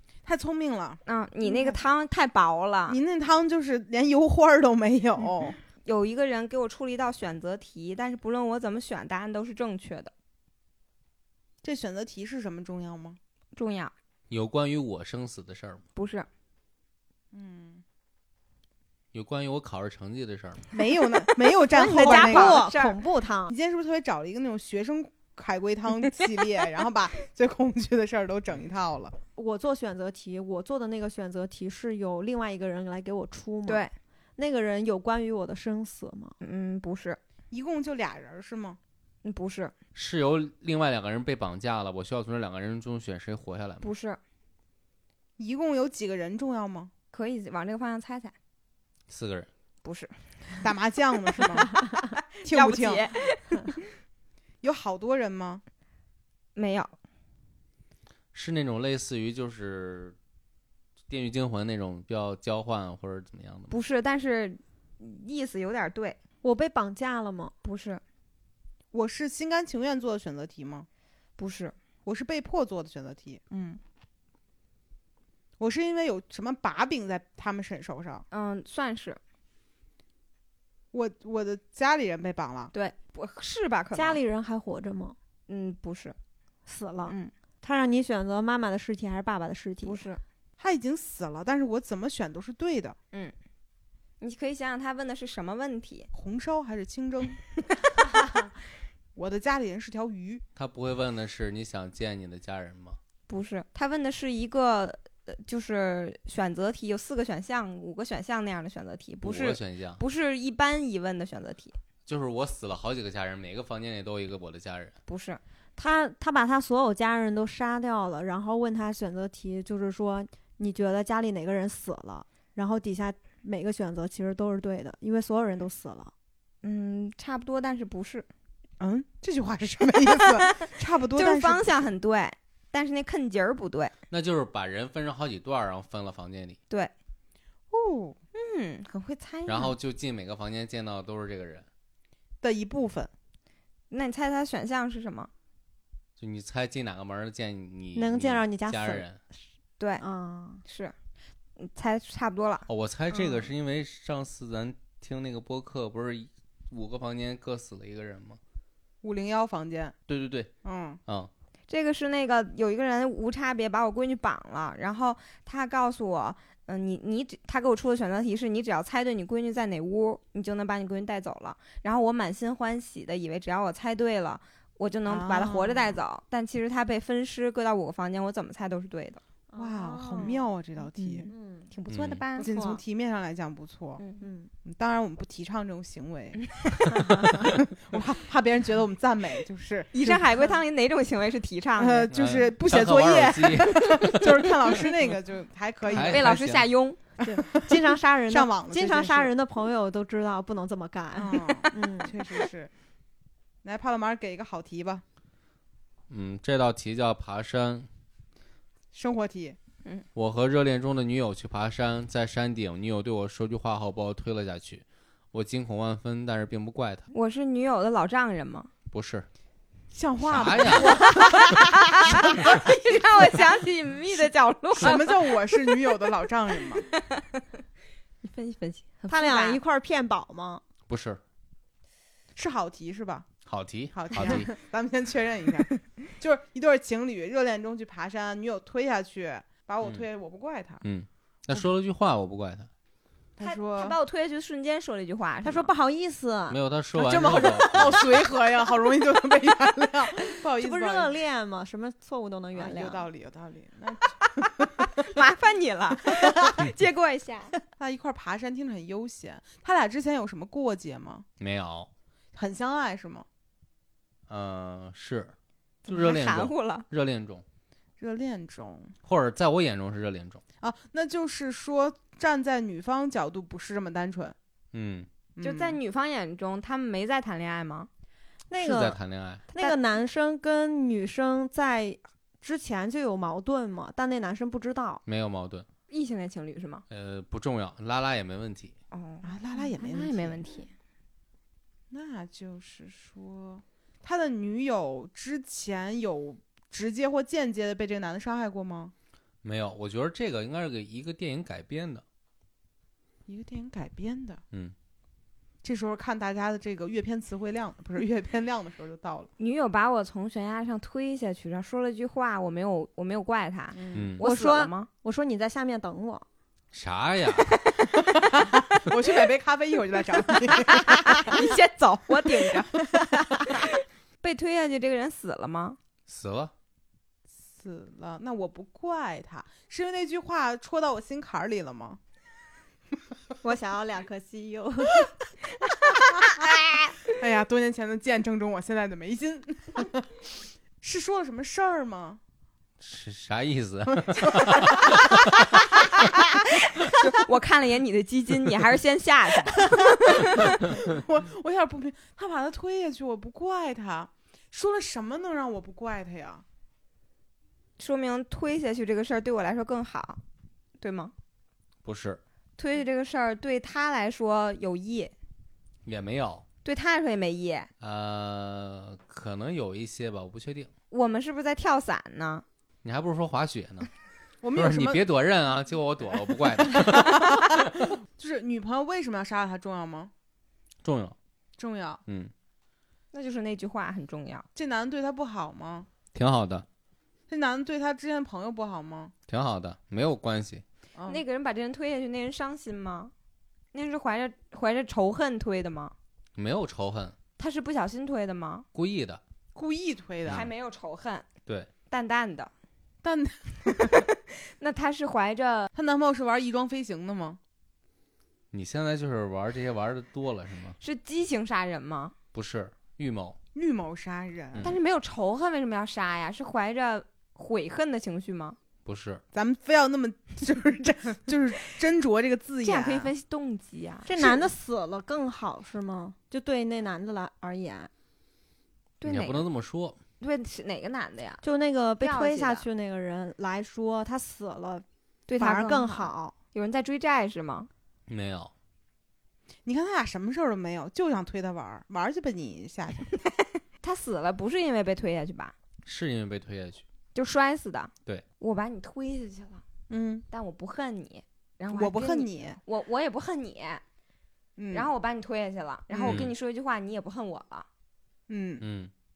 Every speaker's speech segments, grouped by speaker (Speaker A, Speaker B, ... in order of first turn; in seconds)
Speaker A: 0.2-1.8, 2.9-5.6, 11.6-13.2, 17.3-17.8, 20.7-22.7, 23.5-29.1, 37.5-38.8, 45.4-46.9, 50.6-51.7, 52.4-53.0, 54.6-55.6, 68.9-70.9, 72.0-73.8, 75.6-78.2, 80.9-82.7, 90.6-93.0, 96.1-97.4, 99.1-100.4, 128.8-131.7, 137.7-138.2, 142.4-143.1, 159.0-159.9, 160.6-161.0, 175.1-176.0, 179.6-181.3, 182.4-184.0, 184.6-190.6, 191.8-196.4, 197.2-199.3, 201.1-202.7, 203.6-205.0, 208.9-209.6, 219.9-222.5, 223.1-223.4, 224.8-226.8, 232.3-233.3, 233.9-240.8, 243.4-244.0, 247.0-251.1, 252.5-254.9, 257.8-261.2, 262.3-263.2, 268.0-268.9, 270.6-274.4, 275.4-275.8, 289.2-290.4, 291.9-298.9, 303.3-304.4, 305.6-309.3, 313.7-314.1, 317.9-321.4, 322.5-323.1, 327.4-332.0, 337.1-342.2, 344.1-344.8, 349.7-356.4, 374.4-375.0, 376.7-380.1, 381.6-382.0, 384.6-385.9, 387.3-389.1, 390.9-391.2, 399.6-400.5, 403.0-404.0, 405.7-407.4, 413.6-414.7, 419.3-423.1, 424.1-424.5, 439.6-443.1, 449.9-450.2, 451.7-452.6, 454.6-454.9, 455.9-456.2, 458.3-458.6
Speaker B: 1.1-3.0, 5.8-10.1, 13.5-13.9, 15.9-16.3, 21.7-22.9, 33.6-33.9, 36.4-37.2, 39.2-39.7, 43.8-44.2, 47.1-48.3, 49.8-50.1, 52.1-53.7, 56.5-56.9, 63.7-66.2, 67.6-68.0, 71.4-71.7, 78.3-79.2, 82.7-84.2, 85.5-86.2, 87.1-87.3, 89.8-90.2, 94.2-96.1, 103.3-111.8, 115.1-115.4, 126.6-128.3, 131.2-133.9, 138.3-139.7, 143.9-145.3, 149.8-150.0, 150.7-150.9, 151.6-152.7, 161.7-179.2, 181.0-182.5, 189.9-192.1, 195.9-197.0, 217.1-218.7, 220.8-225.7, 226.7-227.4, 228.2-229.6, 243.4-245.7, 254.8-257.5, 265.9-266.9, 275.4-277.9, 285.9-286.8, 288.9-290.7, 309.4-314.9, 320.6-325.8, 346.2-350.7, 357.8-360.2, 360.8-361.1, 362.6-365.1, 366.6-367.7, 370.9-372.4, 383.1-384.4, 391.1-393.1, 393.7-395.9, 397.4-398.6, 400.3-401.3, 401.9-402.5, 403.8-405.7, 410.8-412.1, 414.6-418.6, 422.6-424.1, 429.0-429.4, 430.2-431.4, 432.0-432.6, 435.3-437.7, 443.8-445.5, 447.1-449.6, 450.3-453.8, 454.7-457.6
Speaker C: 14.3-15.8, 19.1-20.6, 39.9-43.9, 49.1-49.5, 58.3-60.1, 61.1-63.7, 100.6-103.0, 109.2-110.0, 112.1-114.9, 134.1-136.6, 139.5-141.7, 146.2-149.2, 152.7-158.4, 160.1-160.5, 181.9-182.2, 192.1-194.5, 195.9-196.7, 206.1-207.9, 210.1-217.1, 218.9-219.3, 220.2-221.0, 230.9-231.2, 233.4-234.5, 240.8-242.7, 246.5-248.0, 261.4-261.9, 264.3-265.3, 265.9-267.4, 269.1-270.4, 274.7-275.1, 278.6-279.4, 285.1-285.6, 286.9-288.7, 299.4-302.0, 313.9-314.2, 316.7-317.5, 326.1-326.5, 342.8-345.4, 361.8-362.2, 365.9-366.4, 367.8-370.7, 372.8-373.9, 374.5-377.8, 380.8-381.1, 382.1-382.3, 386.1-386.6, 389.3-390.6, 396.4-397.1, 398.7-399.2, 408.5-410.8, 412.3-413.4, 418.9-419.2, 429.1-430.0, 438.1-438.5, 445.9-446.8, 456.1-456.3, 458.6-458.9
Speaker D: 21.7-23.6, 29.4-36.4, 66.4-67.5, 83.9-85.2, 86.7-90.0, 115.8-126.1, 147.9-149.1, 150.0-150.6, 179.5-180.4, 181.2-181.7, 182.4-182.8, 184.2-184.5, 187.0-187.3, 197.2-202.2, 229.1-230.6, 245.4-246.6, 250.5-253.1, 278.5-279.0, 279.5-285.0, 314.2-316.2, 333.4-335.1, 424.1-427.9, 431.4-434.9, 435.4-436.3